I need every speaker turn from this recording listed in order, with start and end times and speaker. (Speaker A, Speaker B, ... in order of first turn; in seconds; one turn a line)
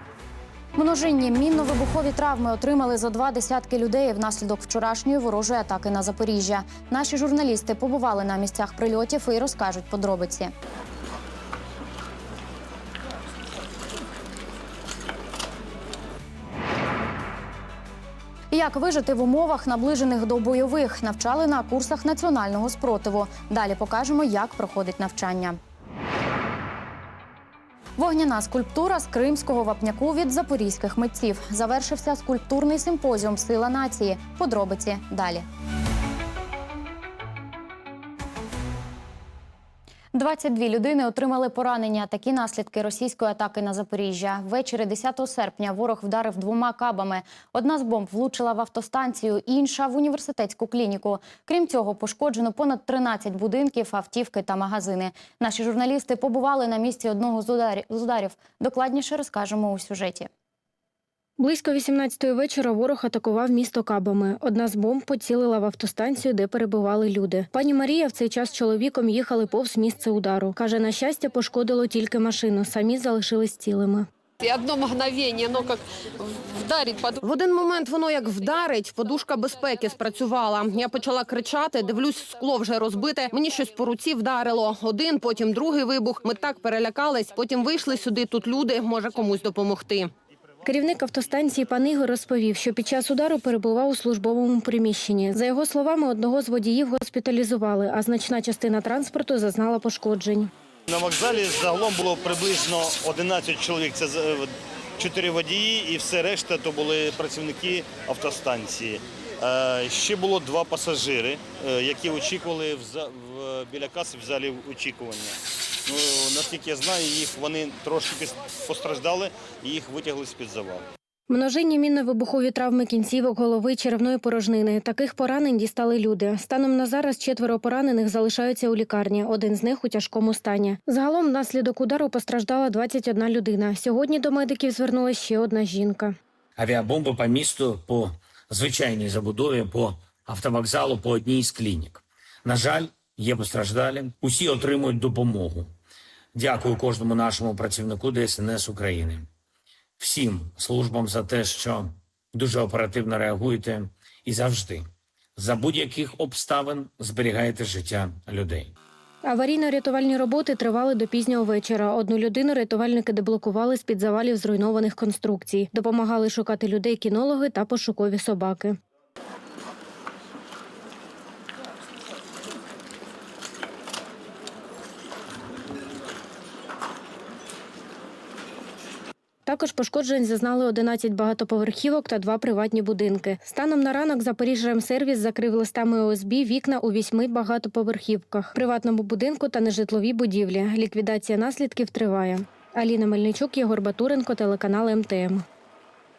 Speaker A: 0.8-10.5
Speaker A: 18.5-25.6
Speaker A: 28.0-35.5
Speaker A: 40.1-60.3
Speaker B: 61.4-74.1
Speaker C: 74.4-77.2
Speaker D: 77.2-90.1
Speaker B: 90.6-100.5
Speaker E: 100.9-120.8
Speaker B: 121.3-136.2
Speaker F: 136.6-145.7
Speaker F: 146.3-149.3
Speaker F: 150.0-158.7
Speaker B: 159.2-168.8
Speaker B: 179.5-195.4